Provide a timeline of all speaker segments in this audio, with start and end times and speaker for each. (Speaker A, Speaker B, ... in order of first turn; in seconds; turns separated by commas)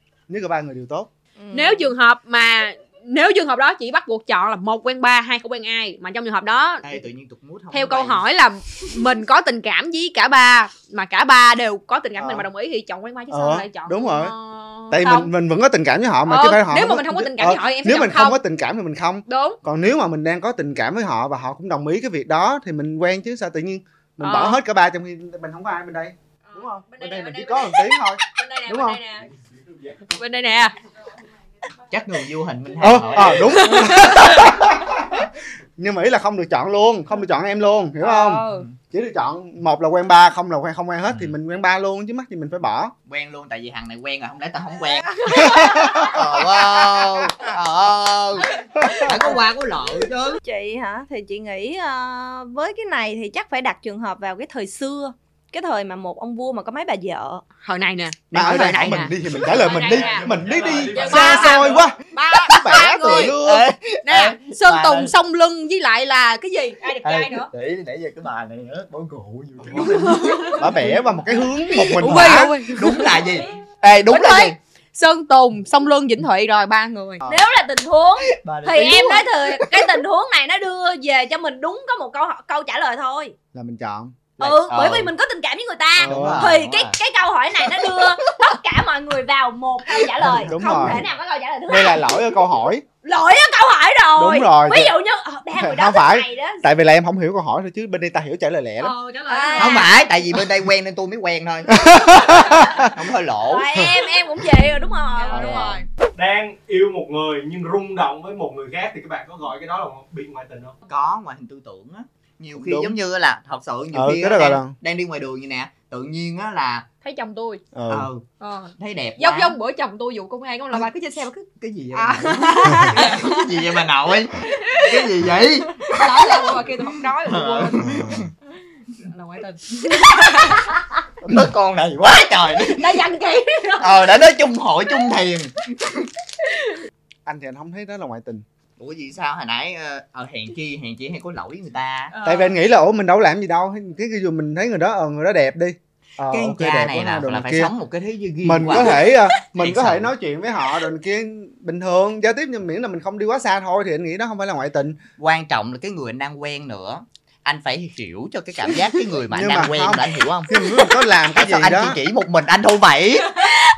Speaker A: 0.3-1.1, Speaker B: 1.4-1.9, Speaker C: 1.5-7.0, Speaker D: 6.8-8.2, Speaker C: 7.7-15.3, Speaker A: 12.2-12.5, Speaker A: 13.3-14.4, Speaker A: 14.9-29.0, Speaker C: 16.3-18.4, Speaker C: 19.3-19.6, Speaker C: 24.2-24.6, Speaker C: 26.5-29.3, Speaker E: 29.4-30.1, Speaker C: 30.1-30.8, Speaker D: 31.9-34.1, Speaker A: 32.8-43.0, Speaker C: 33.5-34.7, Speaker C: 38.0-38.7, Speaker D: 43.1-50.4, Speaker C: 45.2-46.1, Speaker A: 45.3-46.3, Speaker A: 48.8-49.1, Speaker B: 50.4-57.4, Speaker C: 57.6-60.3, Speaker A: 58.3-62.0, Speaker E: 59.7-61.9, Speaker C: 60.9-63.4, Speaker D: 62.4-65.1, Speaker A: 62.5-63.7, Speaker C: 64.0-67.5, Speaker D: 67.0-71.2, Speaker C: 69.7-70.9, Speaker A: 70.5-72.6, Speaker D: 71.7-74.6, Speaker C: 71.7-73.5, Speaker C: 74.1-77.2, Speaker B: 77.3-83.3, Speaker D: 78.3-79.7, Speaker A: 83.5-84.3, Speaker B: 84.4-92.4, Speaker D: 84.4-85.1, Speaker D: 86.0-87.0, Speaker A: 86.0-86.5, Speaker A: 90.2-91.0, Speaker A: 91.7-92.8, Speaker B: 93.0-96.6, Speaker A: 94.2-94.9, Speaker A: 95.6-99.0, Speaker C: 98.8-99.9, Speaker B: 99.3-99.9, Speaker D: 99.6-103.7, Speaker A: 101.7-102.9, Speaker B: 103.5-105.8, Speaker C: 105.2-105.9, Speaker A: 105.3-105.8, Speaker E: 106.2-110.8, Speaker D: 110.9-116.9, Speaker A: 112.5-113.0, Speaker A: 113.9-114.8, Speaker C: 117.0-117.6, Speaker A: 117.7-118.1, Speaker D: 117.9-118.2, Speaker C: 118.4-121.4, Speaker D: 118.8-119.6, Speaker D: 120.7-128.3, Speaker C: 121.9-123.7, Speaker C: 124.4-125.1, Speaker C: 125.7-128.0, Speaker A: 127.8-128.3, Speaker C: 129.0-130.9, Speaker D: 129.9-130.7, Speaker D: 131.2-133.1, Speaker C: 132.6-134.1, Speaker D: 133.8-136.1, Speaker A: 137.3-138.4, Speaker D: 138.8-142.1, Speaker C: 142.1-142.6, Speaker A: 142.2-147.7, Speaker D: 146.3-150.1, Speaker A: 148.4-155.0, Speaker D: 155.2-160.5, Speaker A: 159.3-162.0, Speaker C: 160.5-160.8, Speaker D: 161.3-163.4